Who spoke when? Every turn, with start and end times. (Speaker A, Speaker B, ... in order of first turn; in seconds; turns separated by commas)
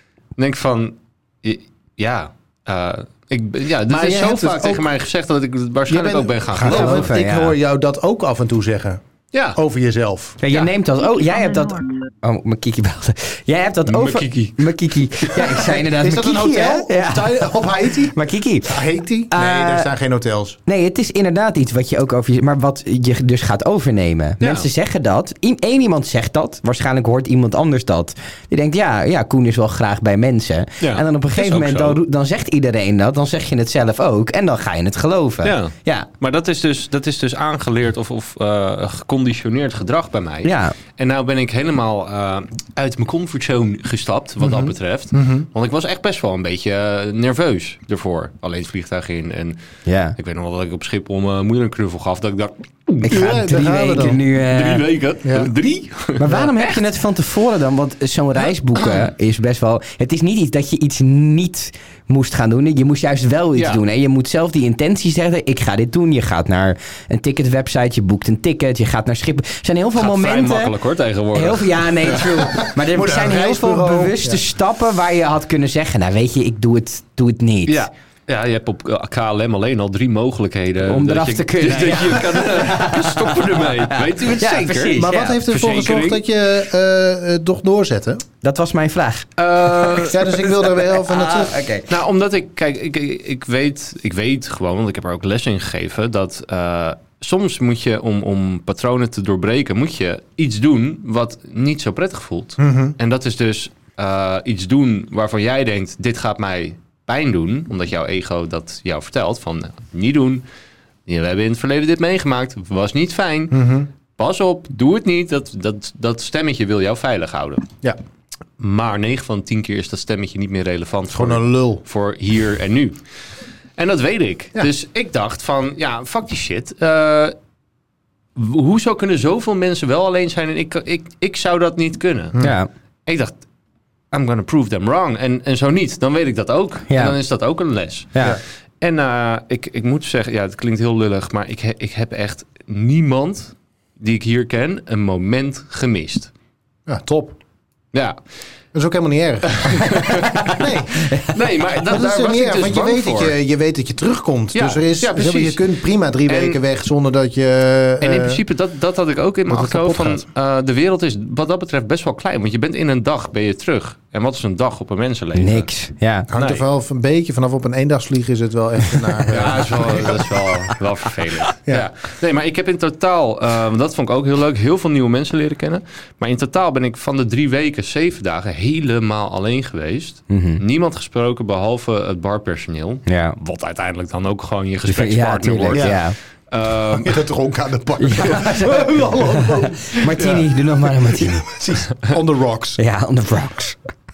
Speaker A: 0.4-7.1, Speaker B: 3.9-4.9, Speaker B: 5.9-9.0, Speaker C: 6.6-7.5, Speaker A: 9.3-9.6, Speaker B: 9.5-10.4, Speaker C: 10.4-19.9, Speaker A: 13.8-15.6, Speaker B: 15.8-20.6, Speaker C: 20.6-36.1, Speaker A: 24.4-24.7, Speaker A: 30.8-32.0, Speaker A: 35.4-49.6, Speaker C: 40.4-40.7, Speaker B: 44.4-45.5, Speaker C: 49.9-50.1, Speaker A: 50.1-53.2, Speaker C: 53.0-54.9, Speaker B: 53.1-54.2, Speaker A: 54.0-56.8, Speaker B: 55.2-55.5, Speaker C: 56.2-70.7, Speaker A: 63.5-63.8, Speaker A: 70.0-72.3, Speaker C: 71.3-77.8, Speaker B: 72.6-74.4, Speaker A: 77.7-86.2, Speaker C: 80.9-85.4, Speaker B: 84.9-88.2, Speaker C: 88.4-91.9, Speaker A: 89.4-90.2, Speaker B: 89.9-91.6, Speaker A: 91.9-110.4, Speaker B: 102.6-102.9, Speaker A: 111.1-117.7, Speaker B: 113.5-113.9, Speaker A: 118.6-123.0, Speaker B: 121.1-121.8, Speaker A: 123.8-127.3, Speaker A: 128.3-132.4, Speaker C: 132.4-132.7, Speaker A: 133.1-133.4, Speaker A: 134.1-138.3, Speaker C: 136.9-137.2, Speaker A: 138.8-146.3, Speaker B: 146.9-147.4, Speaker A: 147.9-148.2, Speaker B: 148.7-158.4, Speaker A: 149.5-150.5, Speaker A: 151.1-153.3, Speaker A: 154.5-155.6, Speaker A: 156.3-156.6, Speaker A: 158.0-165.7, Speaker B: 159.5-160.2, Speaker C: 165.3-166.3, Speaker B: 166.3-170.3, Speaker A: 166.3-166.6, Speaker A: 169.3-187.2, Speaker C: 180.3-180.6, Speaker C: 183.1-183.4, Speaker C: 184.9-186.2, Speaker B: 185.7-186.0, Speaker B: 186.9-190.4, Speaker C: 188.0-191.5, Speaker A: 190.2-190.4, Speaker B: 191.1-192.8, Speaker C: 192.8-193.8